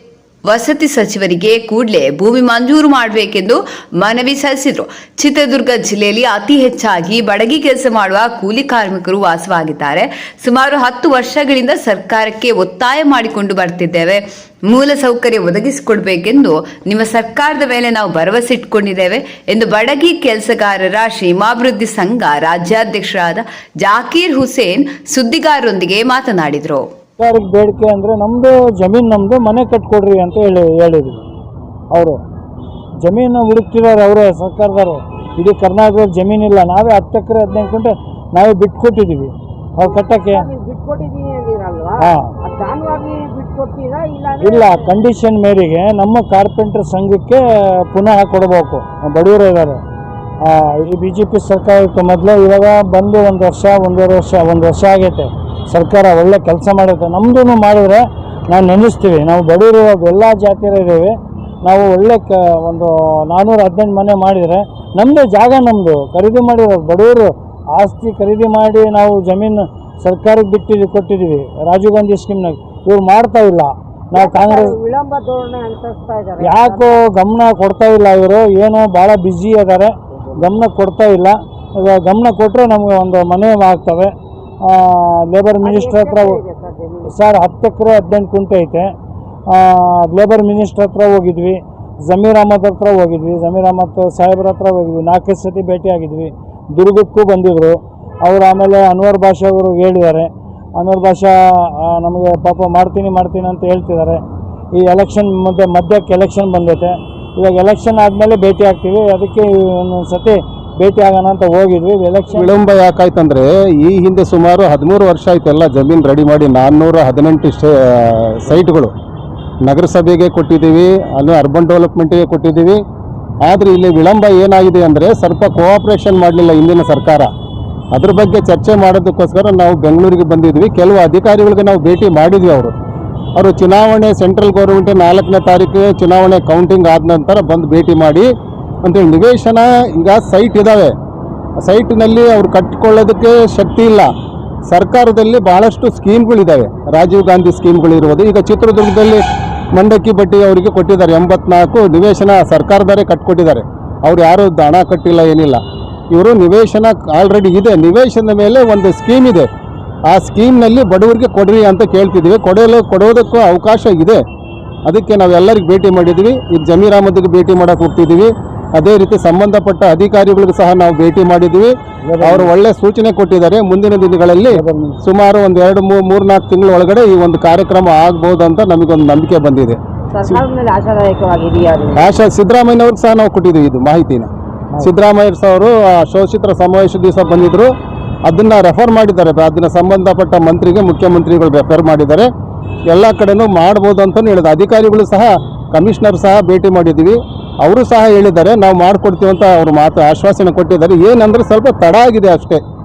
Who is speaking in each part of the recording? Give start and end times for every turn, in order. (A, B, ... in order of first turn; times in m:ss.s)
0:00.4-0:26.8 A
0:27.2-0:31.2 B
0:31.9-0:32.2 B
0:33.0-0:40.5 B
0:39.8-0:45.0 C
0:42.0-0:42.3 B
0:44.4-0:49.8 B
0:50.4-1:01.1 B
1:01.6-1:14.7 B
1:14.1-1:17.0 C
1:16.4-1:24.1 B
1:24.6-1:26.4 B
1:25.6-1:27.1 C
1:27.1-1:28.9 B
1:29.5-1:44.2 B
1:44.8-1:52.5 B
1:52.3-1:58.9 D
1:59.6-2:02.8 D
2:03.4-2:07.3 D
2:07.9-2:12.7 D
2:13.4-2:18.3 D
2:18.8-2:20.9 D
2:21.6-2:24.1 D
2:24.7-2:39.5 D
2:40.1-2:44.2 D
2:44.8-3:00.4 D
2:52.0-2:52.5 B
2:54.5-2:55.0 B
3:00.1-3:02.1 C
3:01.9-3:04.3 D
3:04.8-3:07.7 D
3:08.3-3:12.3 D
3:12.9-3:22.6 D